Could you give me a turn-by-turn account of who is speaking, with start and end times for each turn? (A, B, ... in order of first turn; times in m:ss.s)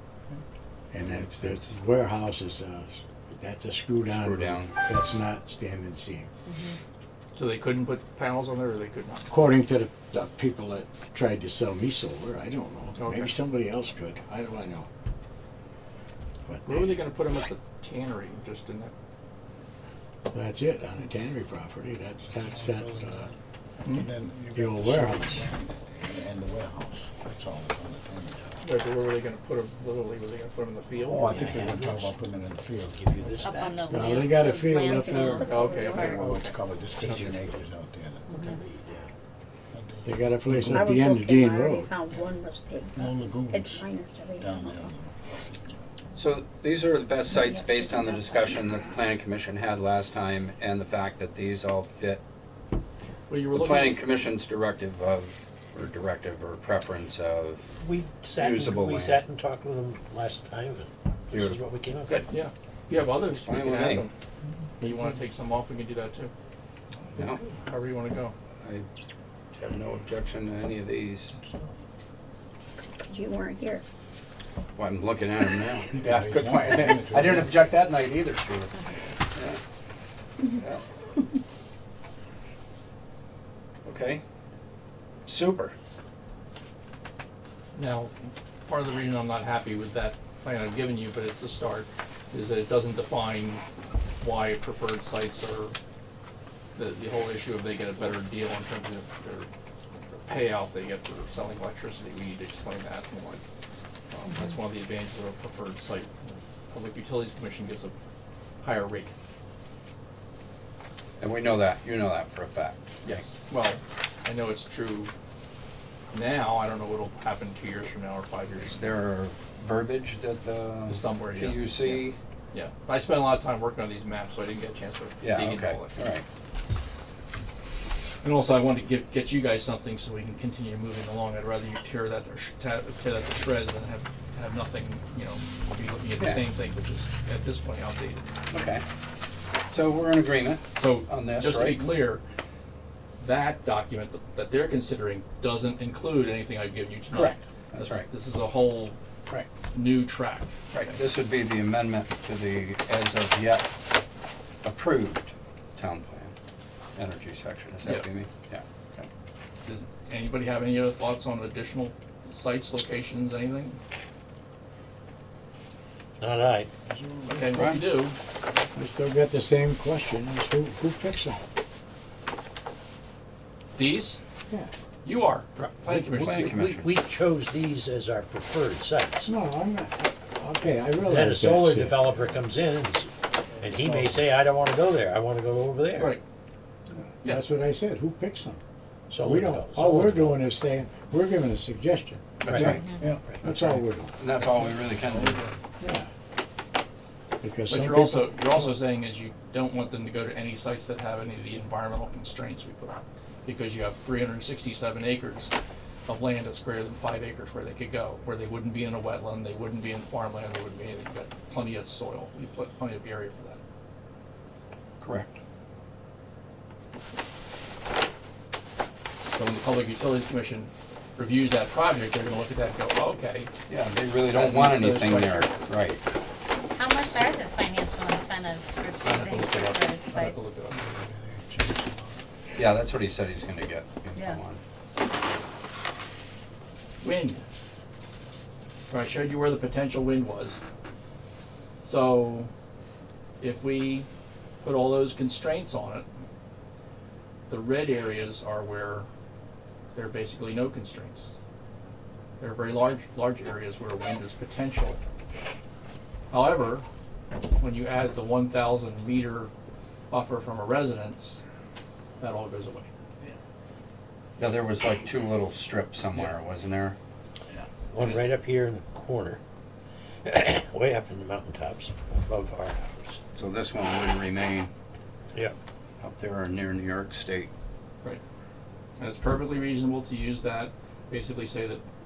0:00.9-0:06.3 A
0:01.0-0:01.7 B
0:04.0-0:04.7 B
0:06.5-0:06.8 C
0:07.4-0:09.3 D
0:09.3-0:14.9 A
0:13.0-0:13.3 D
0:16.5-0:16.9 A
0:16.6-0:18.9 D
0:20.3-0:23.3 A
0:22.4-0:23.3 E
0:23.9-0:28.6 E
0:24.5-0:25.5 A
0:28.6-0:31.5 D
0:31.0-0:32.0 A
0:31.1-0:33.3 E
0:31.3-0:32.1 F
0:32.9-0:33.6 F
0:33.4-0:35.6 C
0:33.9-0:35.5 A
0:34.7-0:36.2 G
0:35.4-0:37.6 D
0:36.0-0:39.1 E
0:37.0-0:37.4 F
0:38.3-0:38.6 C
0:39.7-0:40.8 E
0:40.0-0:41.9 A
0:40.6-0:42.9 G
0:43.0-0:45.1 E
0:43.5-0:44.8 G
0:46.1-0:52.2 B
0:47.3-0:48.7 G
0:53.3-0:54.0 D
0:53.5-0:57.7 B
0:57.8-1:02.2 F
0:58.4-0:59.2 B
1:01.3-1:02.3 B
1:02.3-1:04.1 D
1:03.2-1:04.1 B
1:04.8-1:06.3 D
1:07.2-1:07.4 B
1:07.2-1:08.3 D
1:09.5-1:11.3 B
1:13.0-1:13.8 G
1:14.8-1:19.6 B
1:15.9-1:17.7 E
1:20.4-1:20.8 B
1:23.8-1:24.2 B
1:25.3-1:25.7 B
1:27.7-1:33.6 D
1:34.2-1:35.7 D
1:36.8-1:39.5 D
1:40.1-1:43.4 D
1:44.1-1:47.9 D
1:48.6-1:49.1 D
1:51.2-1:53.1 B
1:53.0-1:55.1 D
1:56.1-1:58.9 D
1:58.6-2:02.2 B
2:00.9-2:06.0 D
2:05.2-2:06.2 B
2:08.2-2:18.3 D
2:18.5-2:18.8 B
2:19.7-2:21.9 B
2:20.8-2:22.2 D
2:23.2-2:29.0 D
2:27.1-2:28.1 B
2:29.7-2:31.0 D
2:30.7-2:33.7 B
2:34.6-2:36.3 B
2:37.0-2:39.1 B
2:39.6-2:43.8 D
2:46.2-2:46.7 F
2:47.0-2:47.6 E
2:47.3-2:48.2 D
2:47.5-2:47.8 B
2:48.7-2:51.4 A
2:53.8-2:54.2 D
2:55.0-2:56.5 D
2:55.6-2:59.3 F
2:55.9-2:56.9 B
2:59.2-3:02.1 A
3:01.0-3:06.2 F
3:07.2-3:08.6 A
3:09.1-3:10.5 F
3:09.2-3:14.1 A
3:12.4-3:12.9 B
3:12.4-3:13.4 F
3:13.4-3:13.7 D
3:14.2-3:15.4 B
3:14.4-3:15.5 D
3:15.8-3:16.1 A
3:17.4-3:18.6 A
3:17.7-3:25.5 D
3:26.1-3:33.6 D
3:35.0-3:35.4 B
3:39.3-3:43.5 D
3:43.7-3:46.0 B
3:44.3-3:45.6 D
3:46.7-3:50.5 C
3:49.0-3:50.8 D
3:50.8-3:52.1 E
3:52.5-3:54.6 B
3:57.0-3:57.4 D
3:58.9-4:00.6 D
4:01.8-4:02.5 D
4:03.4-4:04.1 D
4:04.6-4:06.1 D
4:07.5-4:09.1 D
4:09.9-4:11.3 D
4:12.4-4:15.0 D
4:16.3-4:16.8 D
4:17.6-4:19.5 D
4:20.1-4:21.4 D
4:22.2-4:22.9 D
4:24.4-4:27.0 B
4:27.9-4:29.4 F
4:28.0-4:28.3 D
4:30.2-4:33.2 F
4:33.3-4:34.7 B
4:36.0-4:37.5 B
4:39.0-4:41.8 D